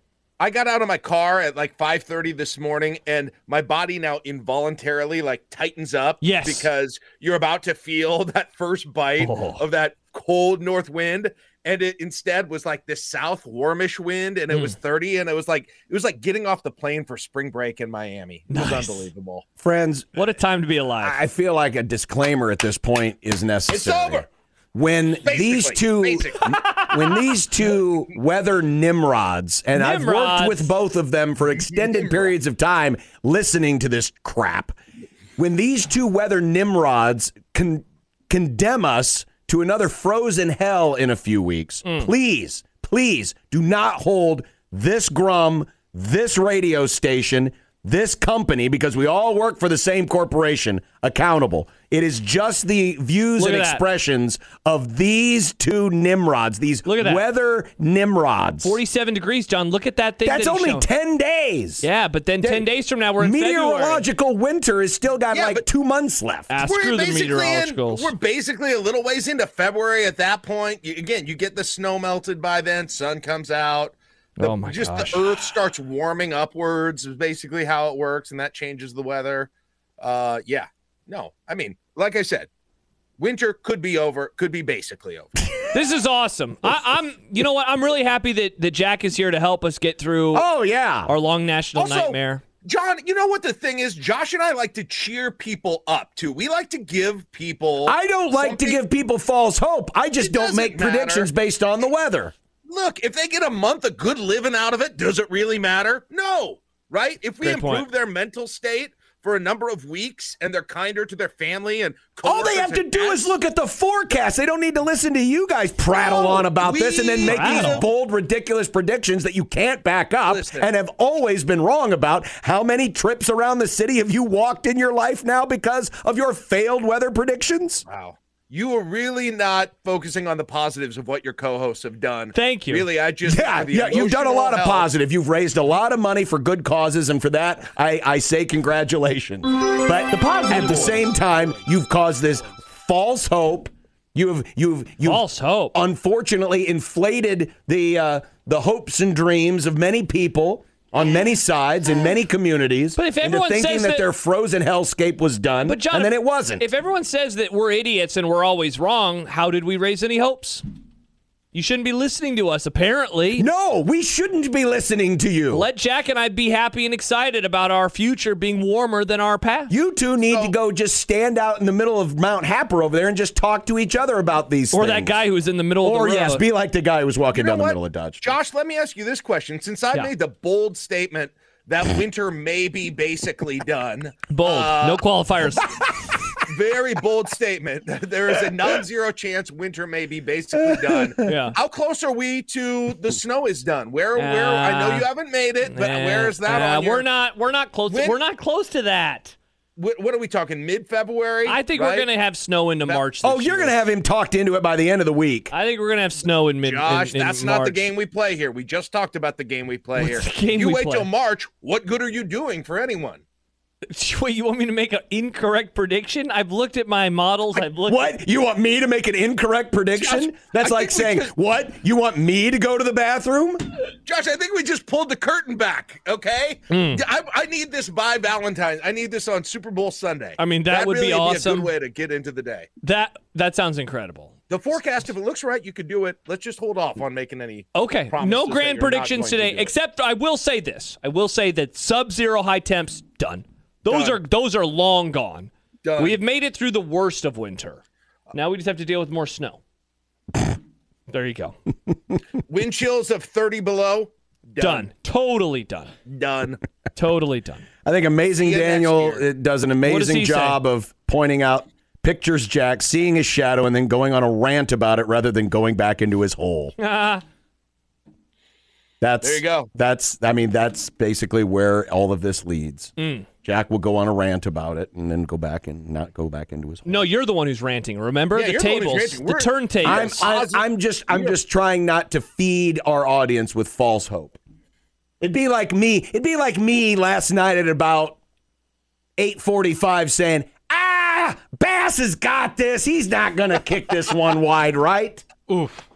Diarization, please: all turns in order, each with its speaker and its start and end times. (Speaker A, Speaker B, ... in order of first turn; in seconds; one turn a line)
Speaker A: 0.4-19.4
Speaker B: 6.2-6.7
Speaker B: 9.2-9.6
Speaker B: 14.5-14.8
Speaker B: 18.5-19.1
Speaker C: 19.6-20.2
Speaker B: 20.1-21.2
Speaker C: 21.0-34.8
Speaker A: 23.7-24.2
Speaker A: 25.2-26.6
Speaker B: 29.7-30.7
Speaker A: 31.6-32.3
Speaker C: 35.4-58.8
Speaker B: 41.8-42.1
Speaker B: 53.4-53.8
Speaker B: 56.9-57.2
Speaker B: 58.6-60.9
Speaker C: 60.2-61.8
Speaker B: 61.8-64.1
Speaker C: 62.4-66.5
Speaker A: 65.3-65.6
Speaker B: 66.5-68.1
Speaker A: 66.6-82.5
Speaker B: 74.4-75.5
Speaker A: 83.2-85.5
Speaker B: 85.7-90.5
Speaker C: 90.3-91.1
Speaker B: 91.1-92.4
Speaker A: 91.8-98.8
Speaker C: 97.8-102.3
Speaker A: 100.2-101.3
Speaker A: 102.7-113.3
Speaker B: 107.4-107.9
Speaker C: 112.2-127.8
Speaker A: 115.9-117.9
Speaker B: 117.2-117.8
Speaker A: 120.2-120.7
Speaker A: 127.9-134.9
Speaker B: 132.3-132.9
Speaker C: 133.2-156.6
Speaker B: 140.5-141.0
Speaker B: 145.1-145.8
Speaker B: 152.9-154.1
Speaker B: 155.7-160.6
Speaker B: 161.5-163.5
Speaker C: 163.4-165.7
Speaker B: 165.5-169.7
Speaker C: 169.7-175.2
Speaker A: 170.3-170.6
Speaker B: 174.7-176.4
Speaker C: 175.8-178.3
Speaker A: 177.3-185.0
Speaker B: 184.3-185.8
Speaker A: 186.4-197.1
Speaker C: 190.6-191.2
Speaker B: 191.2-191.6
Speaker B: 194.2-195.1
Speaker B: 195.7-199.3
Speaker A: 197.9-198.2
Speaker A: 199.8-202.1
Speaker B: 201.5-203.8
Speaker C: 203.2-205.5
Speaker B: 205.5-207.9
Speaker A: 206.6-213.2
Speaker B: 210.0-211.1
Speaker B: 213.9-218.2
Speaker C: 217.8-223.6
Speaker A: 219.9-221.3
Speaker A: 224.1-232.7
Speaker B: 226.7-227.0
Speaker B: 230.4-231.7
Speaker B: 232.8-234.3
Speaker A: 234.5-239.7
Speaker B: 237.7-247.8
Speaker A: 243.9-244.2
Speaker A: 245.8-246.2
Speaker B: 248.3-249.6
Speaker B: 251.1-251.6
Speaker A: 252.5-254.9
Speaker B: 254.6-255.9
Speaker A: 256.1-256.6
Speaker B: 256.9-257.7
Speaker C: 257.8-266.7
Speaker A: 258.4-259.3
Speaker B: 259.8-260.6
Speaker B: 266.8-267.2
Speaker C: 269.0-277.1
Speaker A: 269.2-269.7
Speaker B: 273.0-273.3
Speaker B: 276.9-280.3
Speaker A: 278.3-281.4
Speaker C: 279.8-284.4
Speaker C: 285.2-288.2
Speaker C: 289.2-295.2
Speaker B: 295.5-295.8